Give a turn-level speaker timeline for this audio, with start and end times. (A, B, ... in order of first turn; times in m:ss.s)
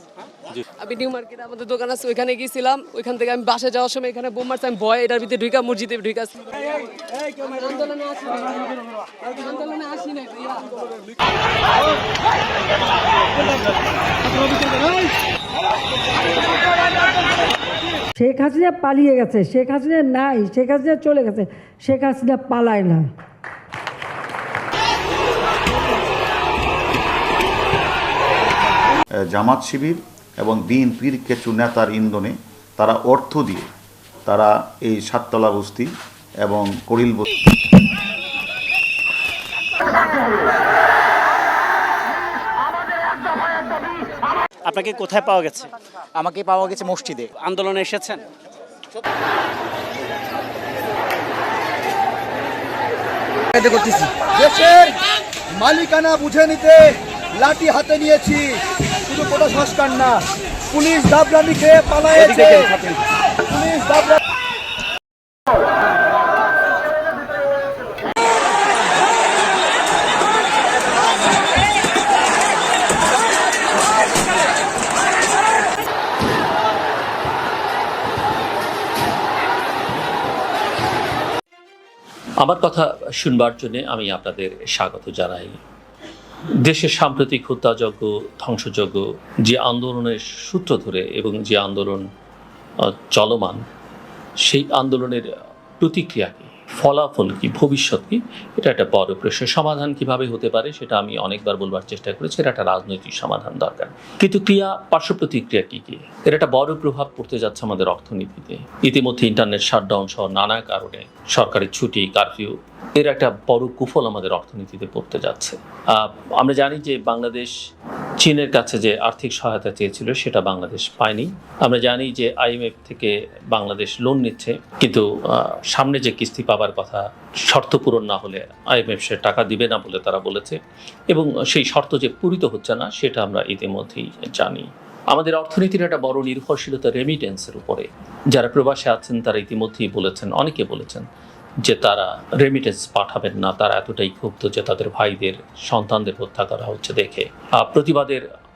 0:00.8-0:06.4 A
0:07.7-0:08.0 A
0:18.2-0:23.1 B
0:29.3-0:33.7 C
0:34.3-0:35.9 C
0:36.4-0:37.3 C
0:44.7-0:45.7 D
0:47.3-0:48.2 D
0:53.6-0:55.0 E
0:55.6-0:58.6 E
0:59.1-1:03.0 E
1:03.5-1:04.1 E
1:22.4-1:25.6 F
1:26.6-1:32.0 F
1:32.8-1:33.6 F
1:34.4-1:57.5 F
1:58.2-2:10.6 F
2:11.1-2:21.0 F
2:21.6-2:28.2 F